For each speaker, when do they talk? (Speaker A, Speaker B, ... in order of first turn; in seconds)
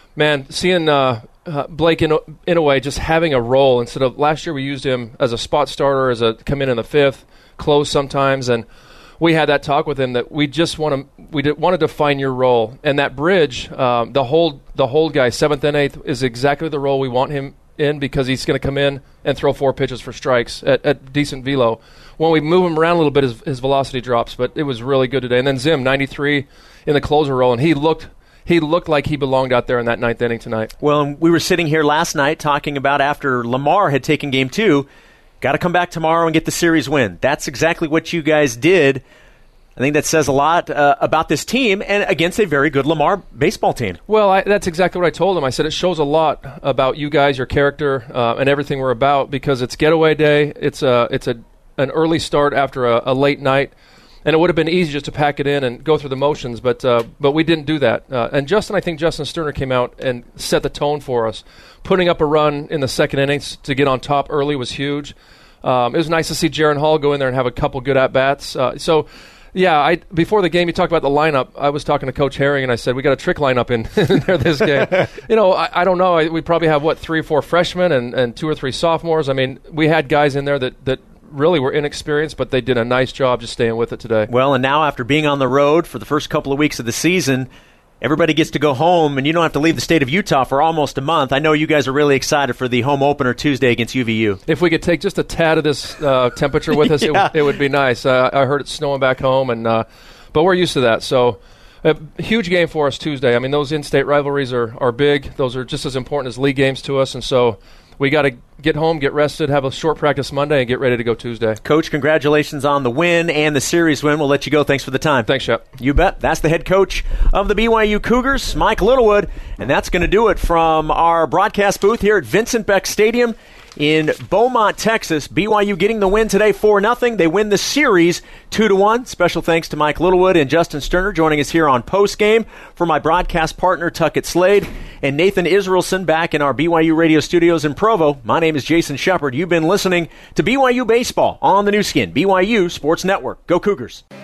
Speaker A: 0.1-8.6, 9.2-30.7, 44.1-53.7, 54.2-84.3, 94.5-111.6, 115.3-115.6
Speaker B: 30.8-34.8, 35.4-39.0, 39.8-44.0, 84.3-87.5, 88.0-94.4, 96.7-97.5, 111.6-144.0